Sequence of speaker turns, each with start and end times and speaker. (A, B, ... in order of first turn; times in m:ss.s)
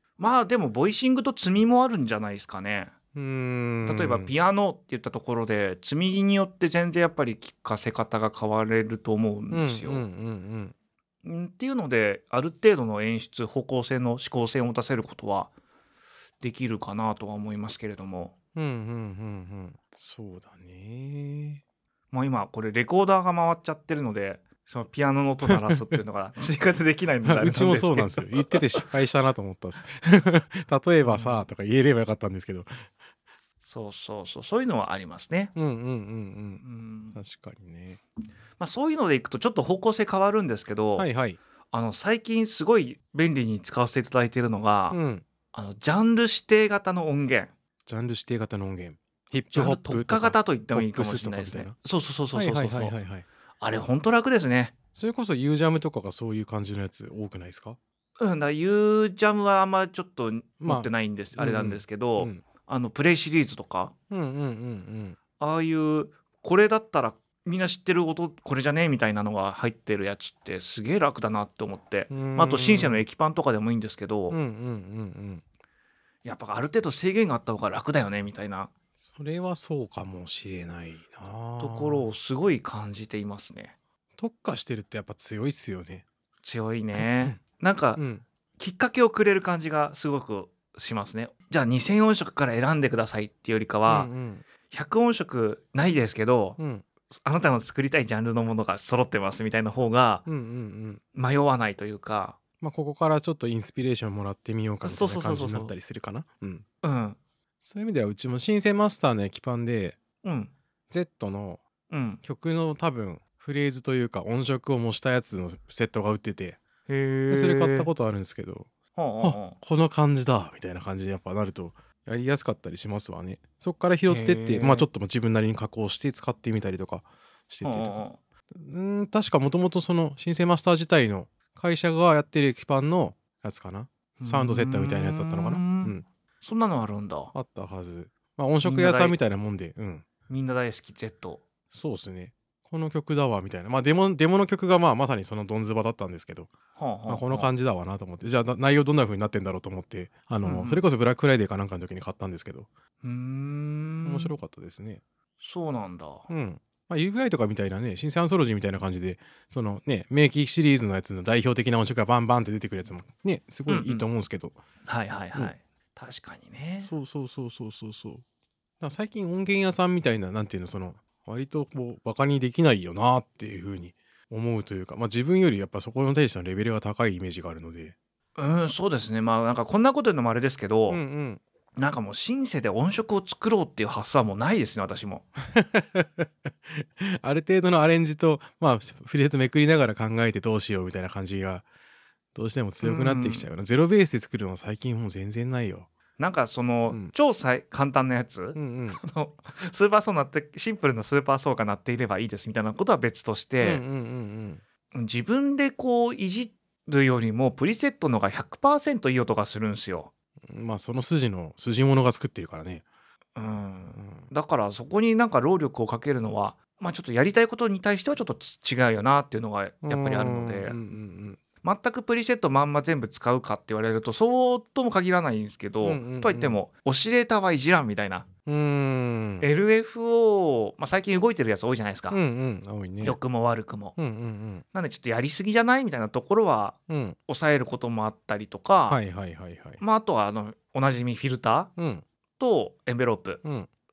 0:00.2-0:02.9 A
0:03.1-0:04.3 B
0:03.8-0:10.0 A
0:09.5-0:10.7 B
0:11.2-0:15.5 A
0:16.4-0:18.3 A
0:18.5-0:21.6 B
0:22.1-0:28.9 A
0:25.5-0:26.0 B
0:27.2-0:32.7 B
0:31.0-0:31.5 A
0:33.6-0:35.5 A
0:35.5-0:36.6 B
0:36.6-0:37.2 A
0:37.1-0:38.0 B
0:38.6-0:41.1 A
0:41.0-0:41.4 B
0:41.7-0:45.0 A
0:44.9-0:45.2 B
0:45.5-0:47.5 A
0:47.9-0:51.7 B
0:49.5-0:53.0 A
0:52.3-0:53.2 B
0:53.6-0:54.7 A
0:54.9-0:57.8 B
0:58.2-1:03.9 A
1:00.6-1:02.4 B
1:04.1-1:05.2 B
1:05.4-1:14.4 A
1:12.1-1:13.0 B
1:14.3-1:15.4 B
1:16.2-1:18.7 A
1:19.0-1:22.1 B
1:21.6-1:23.7 A
1:24.2-1:26.0 B
1:26.4-1:28.0 A
1:26.9-1:27.4 B
1:28.0-1:28.2 B
1:28.6-1:34.1 A
1:33.9-1:34.4 B
1:34.7-1:36.6 A
1:36.6-1:36.8 B
1:37.1-1:40.2 A
1:40.2-1:41.0 B
1:41.1-1:42.4 A
1:42.6-1:46.6 B
1:44.8-1:45.7 A
1:46.8-1:47.2 A
1:47.6-1:50.0 B
1:50.2-1:50.5 A
1:50.9-1:51.6 B
1:51.9-1:52.2 A
1:52.2-1:56.6 B
1:56.9-1:57.9 A
1:57.3-2:16.0 B
1:58.9-1:59.6 A
2:04.1-2:04.9 A
2:07.6-2:08.2 A
2:14.2-2:17.3 A
2:17.3-2:20.0 B
2:18.6-2:19.2 A
2:20.3-2:21.4 A
2:21.7-2:26.5 B
2:26.8-2:27.5 A
2:27.1-2:32.7 B
2:30.4-2:30.8 A
2:33.0-2:34.3 A
2:34.0-2:35.0 B
2:35.4-2:36.3 A
2:36.3-2:44.6 B
2:43.7-2:44.0 A
2:44.8-2:46.9 A
2:46.8-2:48.2 B
2:48.8-2:58.0 B
2:58.4-3:01.0 A
3:00.9-3:01.4 B
3:01.8-3:05.3 A
3:05.5-3:11.6 B
3:12.3-3:15.9 B
3:12.8-3:13.5 A
3:16.2-3:23.8 A
3:18.5-3:19.0 B
3:23.6-3:24.6 B
3:24.9-3:30.1 A
3:30.5-3:32.8 B
3:33.4-3:40.8 A
3:34.0-3:34.3 B
3:39.8-3:41.4 B
3:41.6-3:48.3 A
3:45.8-3:46.6 B
3:48.4-3:49.5 B
3:49.4-3:52.2 A
3:52.1-3:53.2 B
3:53.0-3:54.0 A
3:54.0-3:54.6 B
3:54.7-3:56.8 A
3:56.9-3:57.2 B
3:57.3-3:59.0 A
3:58.9-3:59.8 B
3:59.8-4:01.7 A
4:01.8-4:02.0 B
4:02.4-4:03.4 A
4:03.4-4:03.7 B